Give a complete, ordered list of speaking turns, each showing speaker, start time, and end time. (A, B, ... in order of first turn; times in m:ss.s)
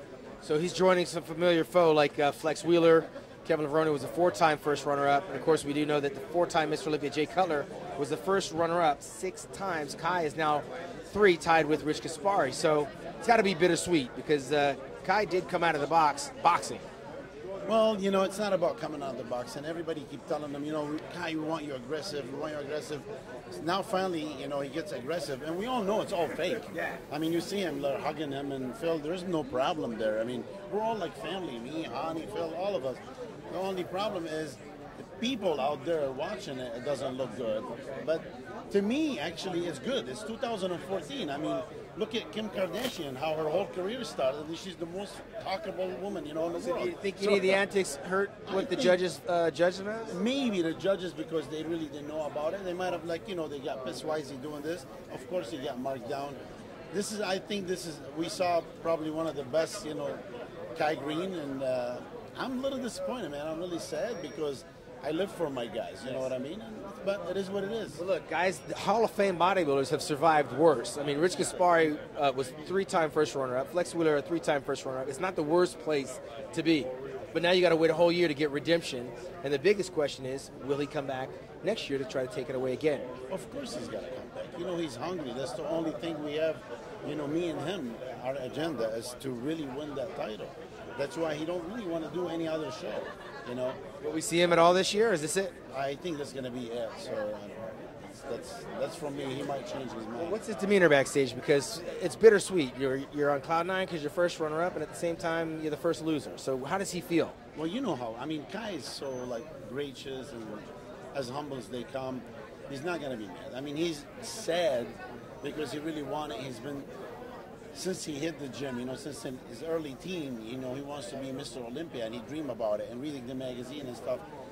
0:00.4-0:16.8 A
0:17.6-0:47.6 B
0:46.5-0:50.2 A
0:48.4-0:49.0 B
0:50.1-0:56.4 B
0:56.9-1:00.2 B
1:00.7-1:08.0 B
1:07.9-1:23.1 A
1:23.3-1:33.8 B
1:34.0-1:35.6 A
1:35.7-1:40.4 B
1:40.2-1:47.4 A
1:47.5-1:56.9 B
1:57.7-2:04.2 B